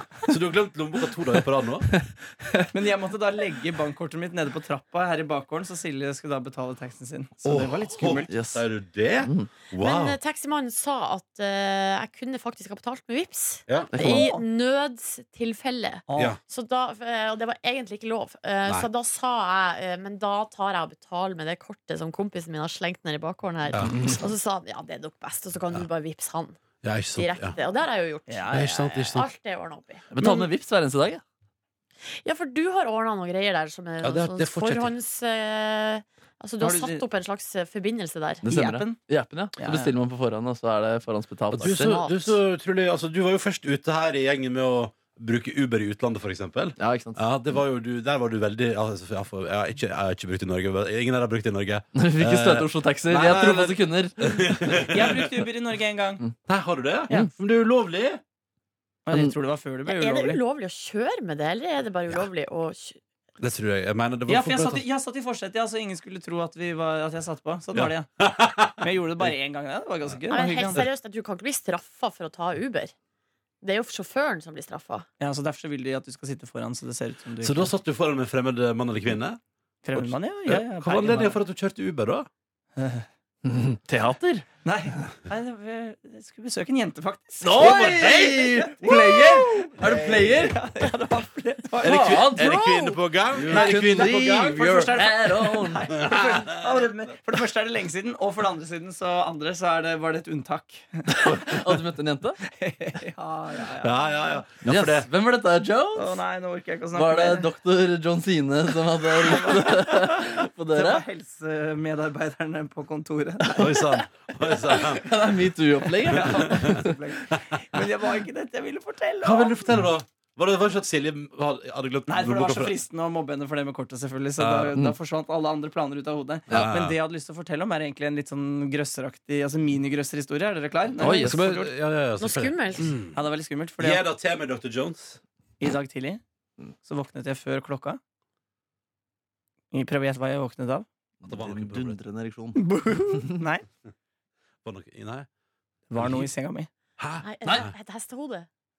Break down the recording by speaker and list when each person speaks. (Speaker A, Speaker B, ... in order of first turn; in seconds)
Speaker A: 0.3-1.9, 7.5-10.2, 13.7-13.9, 23.7-24.0, 26.8-27.6, 28.5-29.3, 30.2-30.5, 34.0-34.9, 41.5-55.3, 56.5-58.2, 63.4-64.8, 67.7-69.3, 77.4-79.4, 80.0-82.3, 87.5-90.4, 91.8-95.0, 96.0-96.8, 103.8-105.1, 113.6-115.0, 116.2-117.4, 119.2-122.8, 124.4-124.8, 126.5-127.0, 131.1-133.2, 133.8-135.2, 141.3-142.0, 144.6-145.3, 146.0-146.3, 147.0-147.7
Speaker B: 1.9-2.7, 8.3-8.6, 9.2-9.5, 13.9-14.3, 23.9-24.2, 30.1-31.2, 38.4-42.0, 46.8-47.2, 52.0-54.8, 83.5-84.5, 87.4-90.6, 91.8-92.6, 93.3-95.9, 101.1-102.4, 104.6-106.2, 107.0-111.0, 113.5-114.0, 114.7-116.9, 131.0-131.4, 141.2-143.4
Speaker C: 2.7-8.3, 14.1-14.4, 16.1-16.4, 28.3-28.8, 36.6-37.0, 38.5-39.0, 39.6-39.9, 54.9-56.2, 59.1-60.4, 64.3-68.1, 68.8-70.8, 75.2-77.7, 79.8-81.4, 82.8-83.1, 84.7-92.3, 93.5-101.5, 102.5-104.1, 106.0-107.5, 109.2-113.8, 116.0-119.7, 122.1-131.7, 133.1-134.0, 135.6-136.2, 136.8-138.0, 139.7-140.9, 142.6-143.7, 145.9-146.7
Speaker D: 9.8-26.6, 27.1-30.1, 32.2-38.4, 41.6-42.4, 59.9-63.0, 70.3-72.9, 73.6-75.1, 92.3-93.0, 132.2-133.0, 147.2-148.5